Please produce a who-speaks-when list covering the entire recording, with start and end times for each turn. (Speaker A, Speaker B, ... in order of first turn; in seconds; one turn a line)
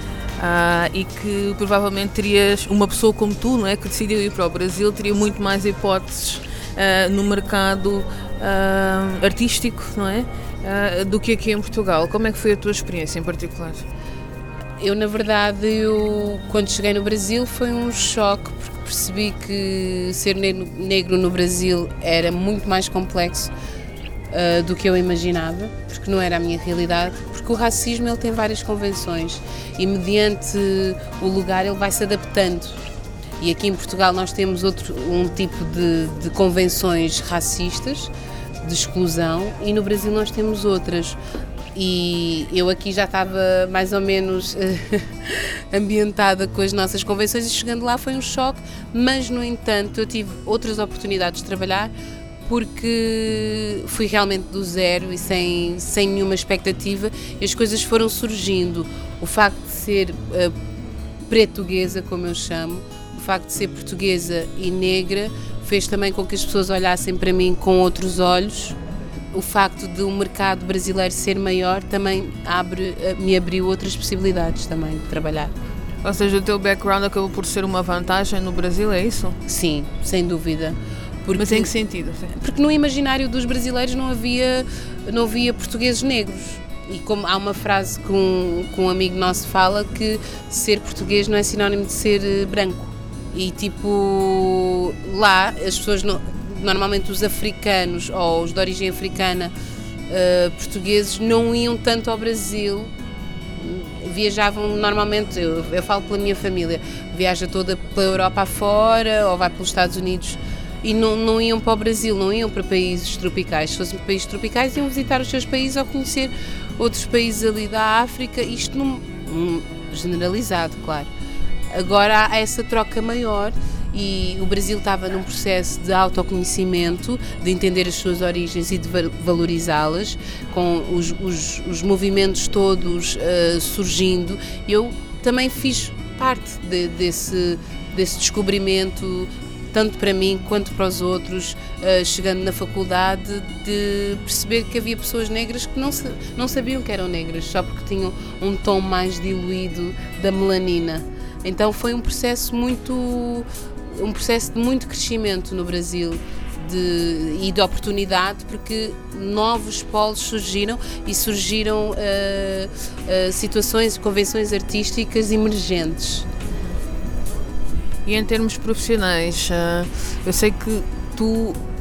Speaker A: 0.4-13.8
Speaker B: 14.8-23.5
Speaker B: 24.3-32.8
Speaker B: 33.4-38.1
Speaker B: 38.6-41.2
Speaker B: 41.7-51.9
Speaker B: 52.4-60.5
Speaker B: 61.3-68.8
Speaker B: 69.3-75.5
Speaker A: 76.0-79.3
Speaker B: 79.5-81.7
Speaker A: 81.4-82.3
Speaker B: 82.3-99.5
Speaker B: 100.1-102.9
Speaker B: 103.6-121.1
Speaker B: 121.7-166.3
Speaker A: 168.1-171.6